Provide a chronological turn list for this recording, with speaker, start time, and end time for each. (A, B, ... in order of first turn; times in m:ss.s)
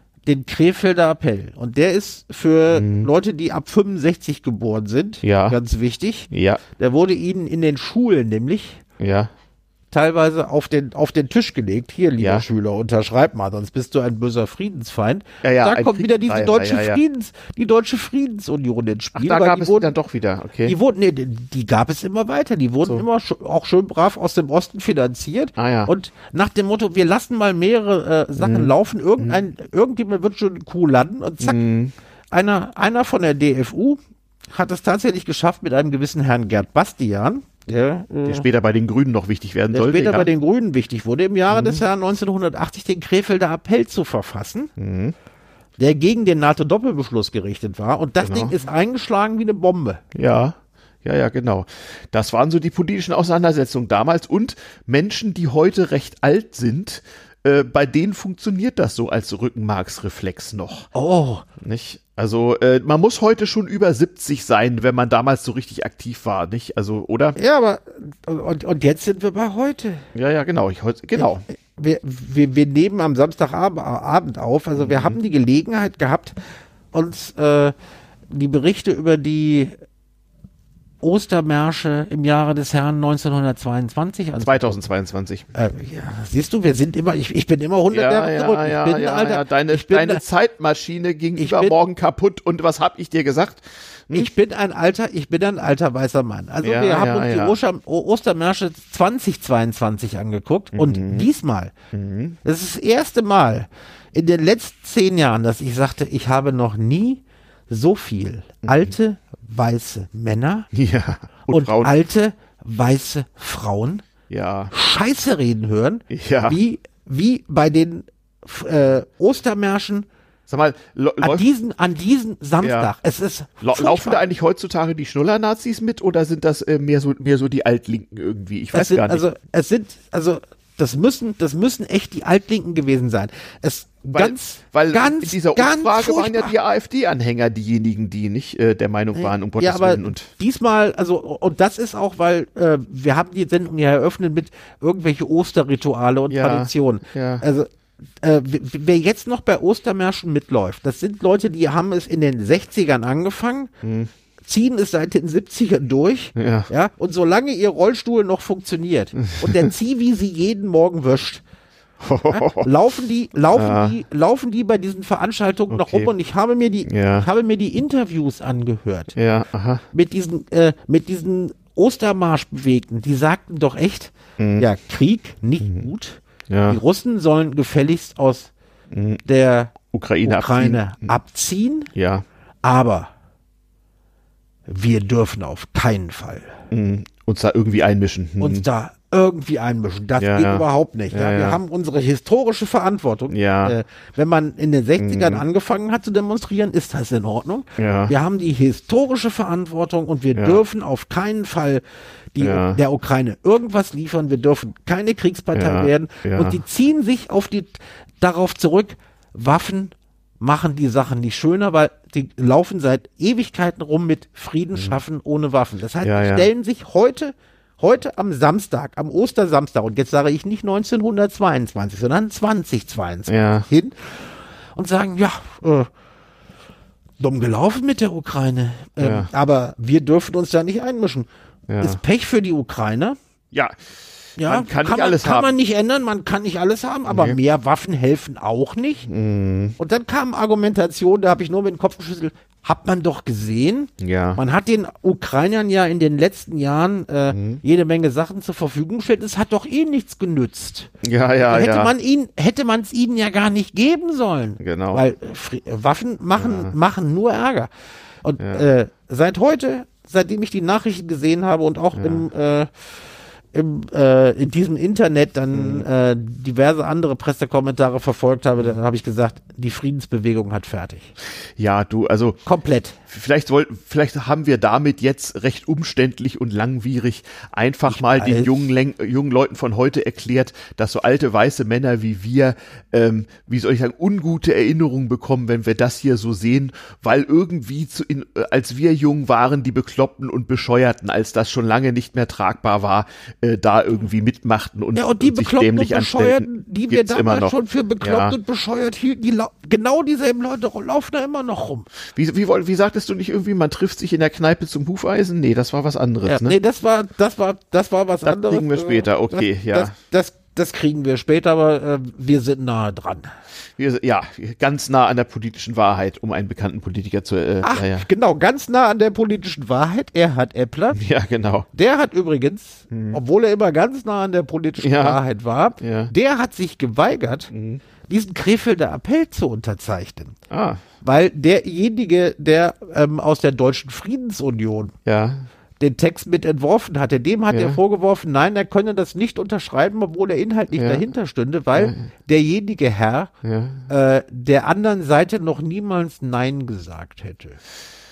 0:00.2-0:08.8 A
0:02.7-0:03.1 B
0:05.2-0:05.6 B
0:06.3-0:06.6 B
0:09.0-0:09.3 B
0:09.9-0:19.9 A
0:12.2-0:12.4 B
0:15.4-0:17.0 B
0:19.1-0:20.8 B
0:20.6-0:31.6 A
0:25.6-0:25.9 B
0:28.4-0:29.4 B
0:31.4-0:31.9 B
0:32.3-0:34.0 A
0:34.5-0:38.4 A
0:38.3-0:40.3 B
0:39.7-0:44.7 A
0:41.5-0:41.8 B
0:44.8-0:45.1 B
0:45.8-0:50.0 A
0:48.2-0:48.5 B
0:50.1-1:00.9 B
1:00.9-1:01.4 A
1:01.6-1:07.4 B
1:07.4-1:10.0 A
1:10.1-1:11.4 B
1:11.2-1:16.4 A
1:14.8-1:15.2 B
1:16.9-1:17.7 A
1:18.3-1:19.7 A
1:21.0-1:24.7 A
1:24.4-1:25.5 B
1:25.5-1:30.2 A
1:27.9-1:34.3 B
1:31.4-1:31.8 A
1:34.1-1:41.7 A
1:36.6-1:37.6 B
1:40.7-1:41.3 B
1:41.9-1:42.4 B
1:42.4-1:50.7 A
1:48.6-1:48.9 B
1:50.7-1:51.9 B
1:51.5-1:54.0 A
1:54.3-1:54.7 B
1:54.7-2:00.1 A
1:56.1-1:56.6 B
2:00.5-2:01.4 B
2:01.2-2:04.2 A
2:02.6-2:02.9 B
2:03.6-2:09.2 B
2:08.7-2:16.5 A
2:14.1-2:20.3 B
2:19.1-2:33.7 A
2:26.3-2:27.4 B
2:33.8-2:34.1 B
2:34.4-2:41.4 A
2:36.4-2:36.7 B
2:39.4-2:39.7 B
2:42.0-2:42.7 B
2:42.3-2:49.1 A
2:43.5-2:43.9 B
2:45.7-2:46.1 B
2:46.9-2:47.2 B
2:49.1-2:49.8 B
2:49.9-2:58.5 A
2:54.4-2:54.6 B
2:56.5-2:56.8 B
2:58.9-2:59.2 B
2:59.2-3:01.9 A
2:59.9-3:01.1 B
3:01.9-3:02.2 B
3:02.6-3:03.1 A
3:04.7-3:06.6 A
3:06.7-3:08.6 B
3:08.4-3:21.8 A
3:10.2-3:11.6 B
3:13.3-3:13.8 B
3:15.0-3:15.4 B
3:17.8-3:18.1 B
3:22.3-3:45.9 A
3:22.4-3:22.8 B
3:25.5-3:26.6 B
3:36.0-3:36.5 B
3:43.3-3:43.7 B
3:47.2-3:51.3 A
3:49.0-3:49.3 B
3:51.7-3:52.0 B
3:51.8-3:53.2 A
3:54.4-3:59.1 A
3:54.4-3:55.5 B
3:57.1-3:57.4 B
3:59.1-3:59.8 B
3:59.8-4:10.9 A
4:04.0-4:04.4 B
4:07.3-4:07.6 B
4:11.0-4:11.9 B
4:11.4-4:17.7 A
4:14.6-4:15.0 B
4:16.4-4:16.7 B
4:18.2-4:22.8 A
4:18.4-4:18.6 B
4:22.0-4:22.2 B
4:23.5-4:31.1 A
4:25.5-4:25.8 B
4:31.6-4:32.4 B
4:32.4-4:33.0 A
4:33.1-4:58.3 B
4:37.9-4:38.7 A
4:54.9-5:01.9 A
5:02.1-5:06.6 B
5:06.2-5:13.3 A
5:08.2-5:09.9 B
5:13.8-5:18.0 B
5:17.6-5:21.0 A
5:20.9-5:21.7 B
5:21.7-5:27.5 A
5:22.9-5:23.2 B
5:24.8-5:25.2 B
5:25.8-5:26.1 B
5:27.5-5:27.8 B
5:28.1-5:30.4 A
5:30.5-5:30.8 B
5:31.0-5:34.9 A
5:35.0-5:35.4 B
5:35.8-5:43.3 A
5:37.5-5:37.8 B
5:40.8-5:41.0 B
5:41.8-5:42.0 B
5:43.4-5:43.8 B
5:43.9-5:47.6 A